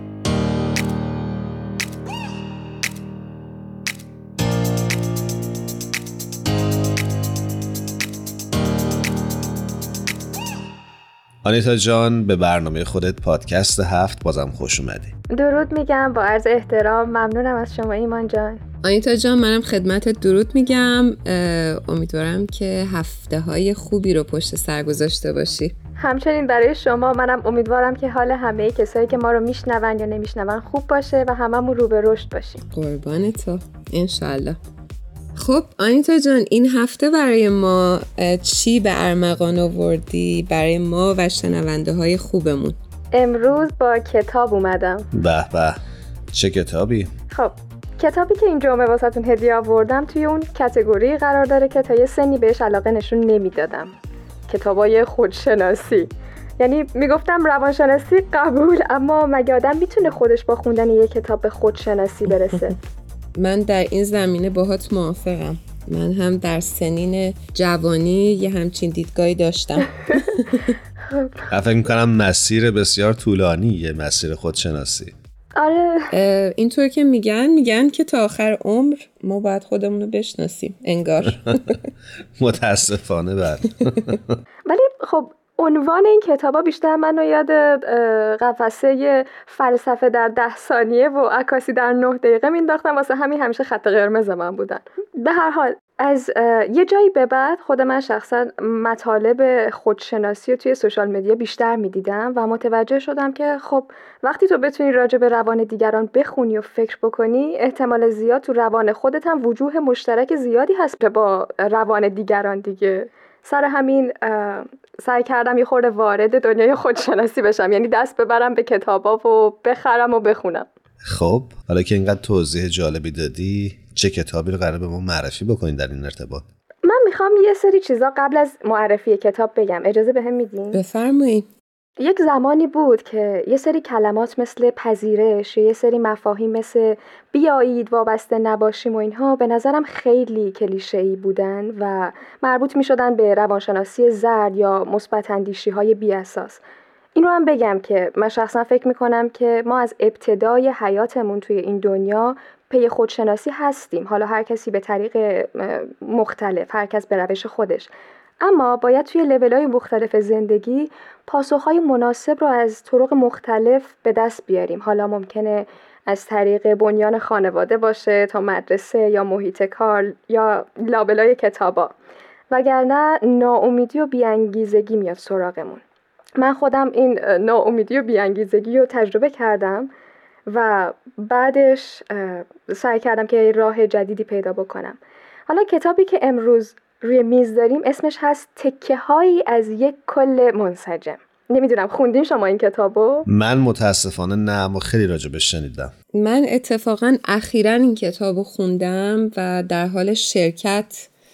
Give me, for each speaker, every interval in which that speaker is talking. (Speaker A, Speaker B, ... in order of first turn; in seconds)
Speaker A: 11.4-15.1, 45.1-45.8, 46.3-47.1, 71.5-75.1, 82.4-84.2, 121.0-126.4, 193.3-195.9
Speaker B: 15.3-18.6, 26.0-32.6, 43.1-45.1, 47.3-53.9, 54.5-62.8, 71.1-71.5, 75.5-76.1, 84.7-120.7, 126.8-130.8, 132.0-146.6, 147.2-157.9, 158.4-171.9, 172.5-175.8, 176.4-179.9, 180.5-193.3
Speaker C: 18.8-25.7, 32.7-34.6, 35.4-42.8, 63.4-70.8, 76.1-81.8, 130.7-131.4, 196.1-201.1